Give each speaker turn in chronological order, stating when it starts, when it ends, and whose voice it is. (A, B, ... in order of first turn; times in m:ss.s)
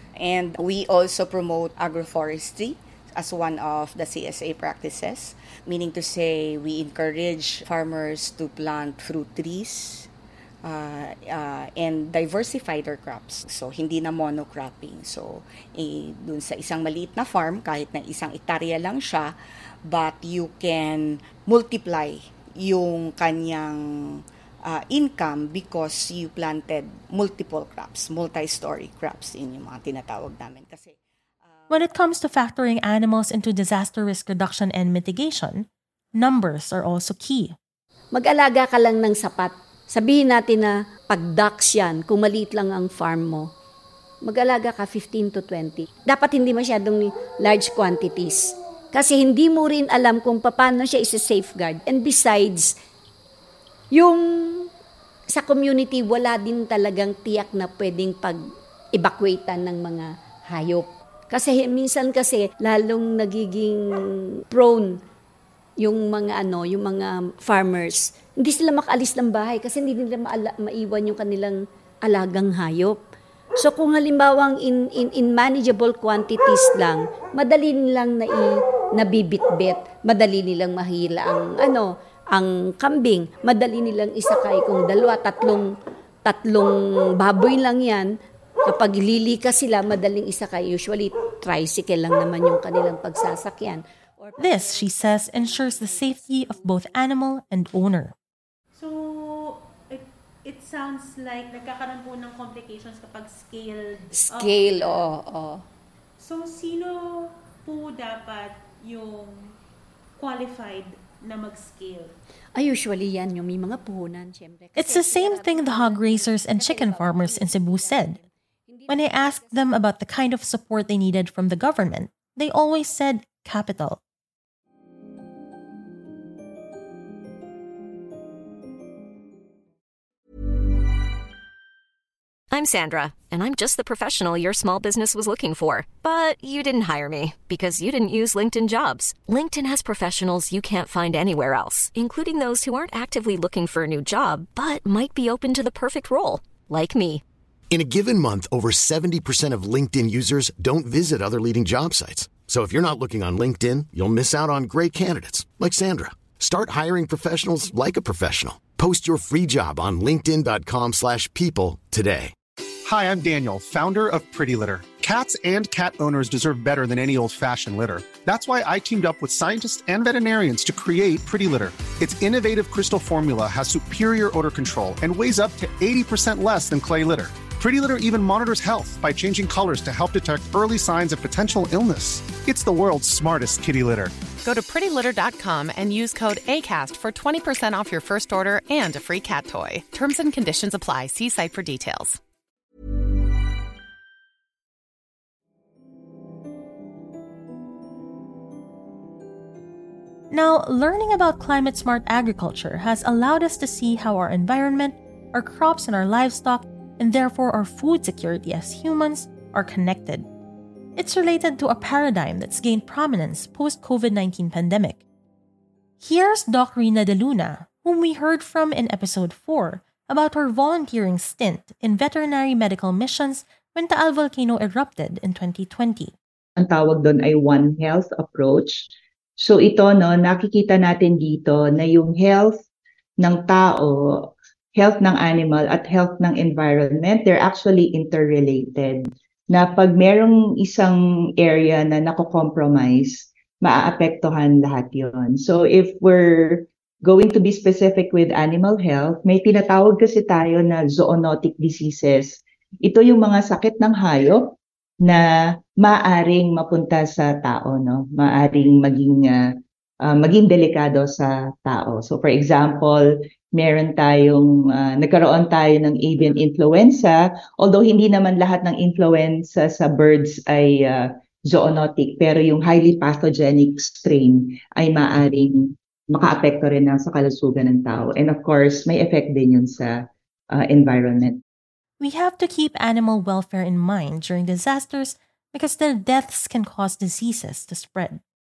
0:00.2-0:10.1 A
0:10.6-0:19.4 A
0:19.9-0:31.0 A
0:31.7-0:35.6 B
0:36.2-0:37.6 B
0:38.1-0:43.5 C
0:44.2-0:52.8 C
0:53.9-0:54.7 C
0:55.3-0:58.4 C
0:59.0-1:03.8 C
1:04.5-1:05.0 C
1:05.8-1:13.0 C
1:13.6-1:25.7 C
1:26.2-1:28.1 C
1:28.7-1:36.6 C
1:34.4-1:38.1 B
1:38.8-1:45.0 D
1:44.1-1:45.6 C
1:46.2-1:49.6 D
1:50.2-1:52.2 D
1:52.6-1:59.6 C
1:54.8-1:58.2 B
1:58.9-2:04.0 B
2:12.5-2:27.2 E
2:27.7-2:42.3 F
2:42.9-3:04.1 G
3:04.4-3:12.2 H
3:20.3-3:30.2 B
3:31.0-3:35.0 B
3:36.0-3:46.1 B
3:46.6-3:48.9 I
3:49.4-3:52.6 I
3:53.2-4:14.5 I
4:15.8-4:19.4 I
4:20.0-4:40.0 I
4:40.5-4:41.4 I
4:42.0-4:48.2 B